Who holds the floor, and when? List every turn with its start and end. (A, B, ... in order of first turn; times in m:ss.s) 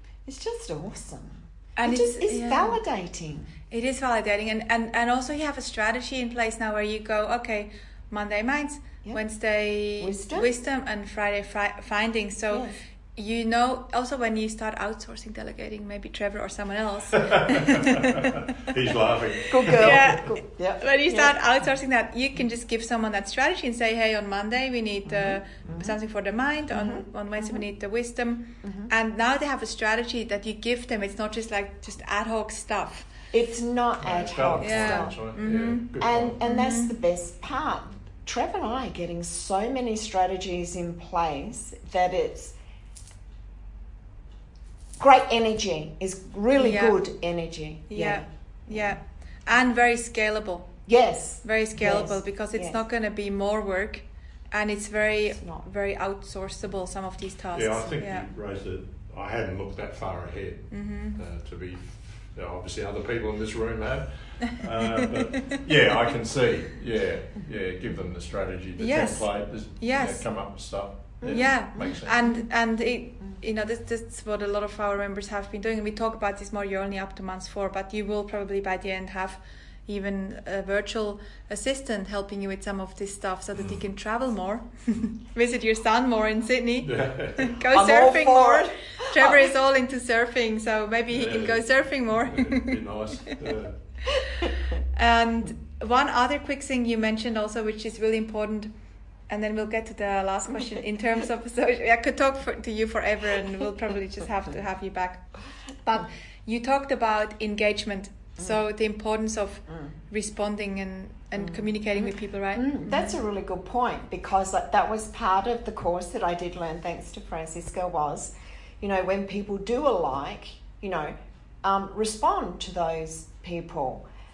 0:00.2-0:03.5 A
0:01.8-0:02.8 B
0:03.7-0:18.4 B
0:10.0-0:10.5 A
0:12.5-0:12.8 A
0:17.2-0:20.2 C
0:19.5-0:21.4 A
0:19.8-0:33.1 B
0:25.1-0:26.0 A
0:26.7-0:27.6 A
0:28.6-0:28.9 A
0:33.3-0:35.3 A
0:34.0-0:36.4 C
0:34.6-0:35.9 B
0:36.0-0:42.6 A
0:36.4-0:36.9 B
0:45.0-0:49.0 A
0:46.6-0:47.0 B
0:47.9-0:50.7 B
0:50.9-0:52.8 A
0:51.4-0:58.3 B
0:57.5-1:12.2 C
1:00.7-1:01.2 B
1:08.8-1:10.3 B
1:11.2-1:12.0 A
1:11.3-1:32.8 B
1:26.8-1:27.5 C
1:27.7-1:29.5 A
1:31.1-1:33.8 C
1:34.9-1:38.7 B
1:39.3-1:45.3 B
1:45.8-1:53.2 B
1:49.7-1:49.9 A
1:51.4-2:04.0 A